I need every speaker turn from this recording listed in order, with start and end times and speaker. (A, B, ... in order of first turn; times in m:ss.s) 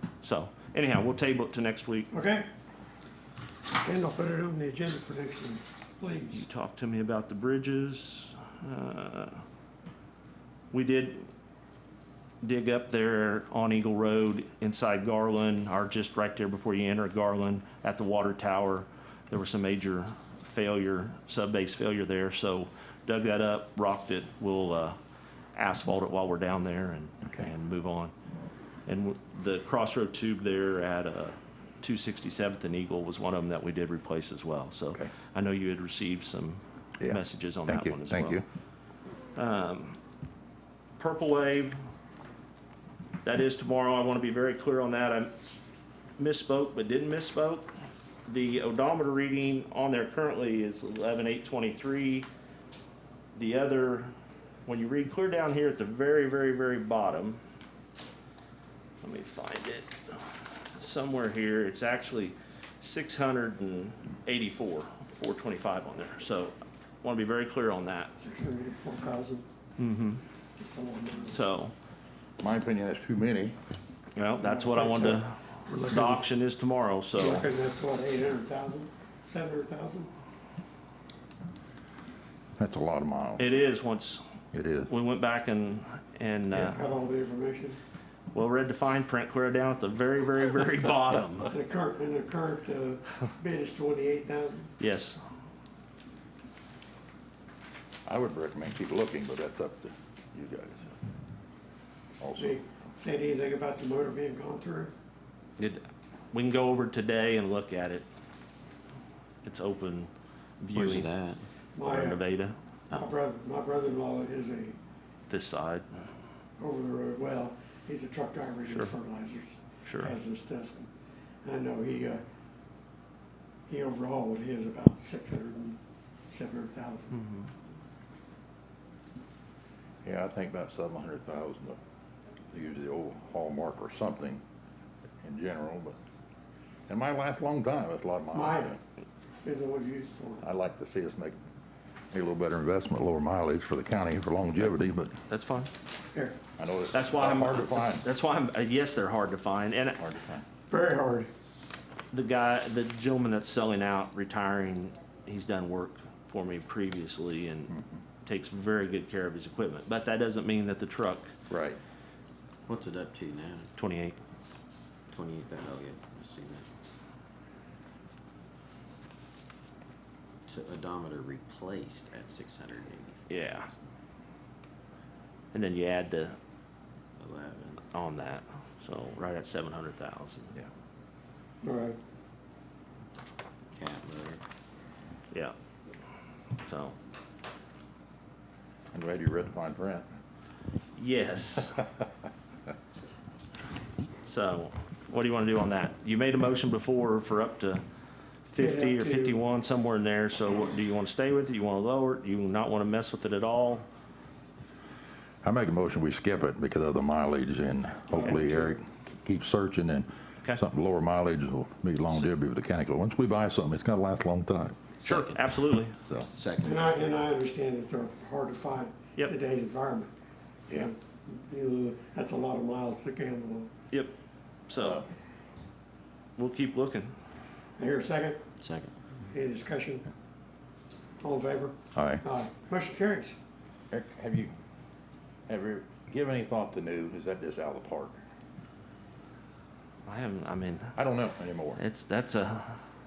0:00.2-0:02.1 A
0:02.1-0:02.5 B
0:03.8-0:06.5 B
0:06.3-0:09.4 A
0:10.7-0:11.3 A
0:12.4-0:25.0 A
0:25.5-0:28.1 A
0:28.9-0:38.4 A
0:37.0-0:38.4 C
0:39.4-0:40.0 A
0:41.0-0:41.8 A
0:43.2-0:45.3 A
0:46.2-0:47.7 A
0:48.3-0:52.3 A
0:53.4-0:54.1 A
0:54.7-0:57.4 A
0:59.0-1:08.1 A
1:08.2-1:09.5 B
1:09.8-1:10.2 A
1:10.6-1:11.4 B
1:11.3-1:11.7 A
1:12.4-1:13.6 C
1:14.2-1:17.5 A
1:14.4-1:16.2 B
1:17.2-1:20.1 B
1:22.6-1:23.5 C
1:23.4-1:24.2 A
1:24.5-1:24.9 C
1:24.9-1:26.8 A
1:26.5-1:27.8 B
1:28.3-1:31.5 A
1:31.5-1:34.7 B
1:34.8-1:35.2 A
1:38.1-1:41.0 C
1:42.2-1:42.6 C
1:42.4-1:44.9 B
1:45.6-1:48.1 A
1:49.4-1:51.1 A
1:50.7-1:51.4 D
1:51.8-1:52.2 B
1:51.8-1:52.6 A
1:52.9-1:54.8 B
1:55.3-1:56.1 A
1:56.6-2:00.9 B
1:59.8-2:00.1 A
2:01.4-2:02.2 B
2:03.7-2:05.8 B
2:06.3-2:07.3 B
2:07.1-2:07.5 A
2:10.0-2:11.8 C
2:12.5-2:14.4 C
2:15.2-2:16.0 C
2:16.9-2:18.8 C
2:18.3-2:18.7 B
2:19.4-2:20.4 B
2:20.4-2:21.4 C
2:22.1-2:25.2 C
2:25.3-2:25.7 A
2:26.1-2:26.4 B
2:26.6-2:28.0 C
2:26.9-2:30.0 A
2:30.0-2:30.4 C
2:30.7-2:31.3 B
2:32.1-2:41.3 A
2:37.7-2:38.0 C
2:41.5-2:41.8 C
2:42.7-2:43.7 D
2:43.8-2:44.2 A
2:45.1-2:46.7 D
2:50.5-2:53.3 D
2:53.3-2:53.7 A
2:55.5-2:56.4 A
2:57.2-2:57.8 D
2:57.9-3:00.6 A
3:01.6-3:02.0 B
3:03.7-3:04.4 D
3:06.6-3:07.0 A
3:08.9-3:10.1 C
3:11.0-3:11.8 A
3:14.2-3:17.8 A
3:18.5-3:23.9 A
3:18.6-3:19.4 B
3:25.4-3:35.2 C
3:28.1-3:28.8 B
3:35.0-3:37.1 D
3:35.0-3:36.0 A
3:36.0-3:36.3 C
3:36.6-3:40.1 B
3:40.7-3:43.7 B
3:44.7-3:45.0 A
3:44.7-3:45.1 C
3:46.4-3:47.1 A
3:47.8-3:48.4 B
3:48.6-3:49.0 D
3:49.3-3:50.1 B
3:51.2-3:53.4 B
3:52.0-3:52.2 C
3:53.9-3:54.5 C
3:55.5-3:58.2 C
4:00.1-4:01.0 A
4:01.0-4:01.8 C
4:01.8-4:02.8 A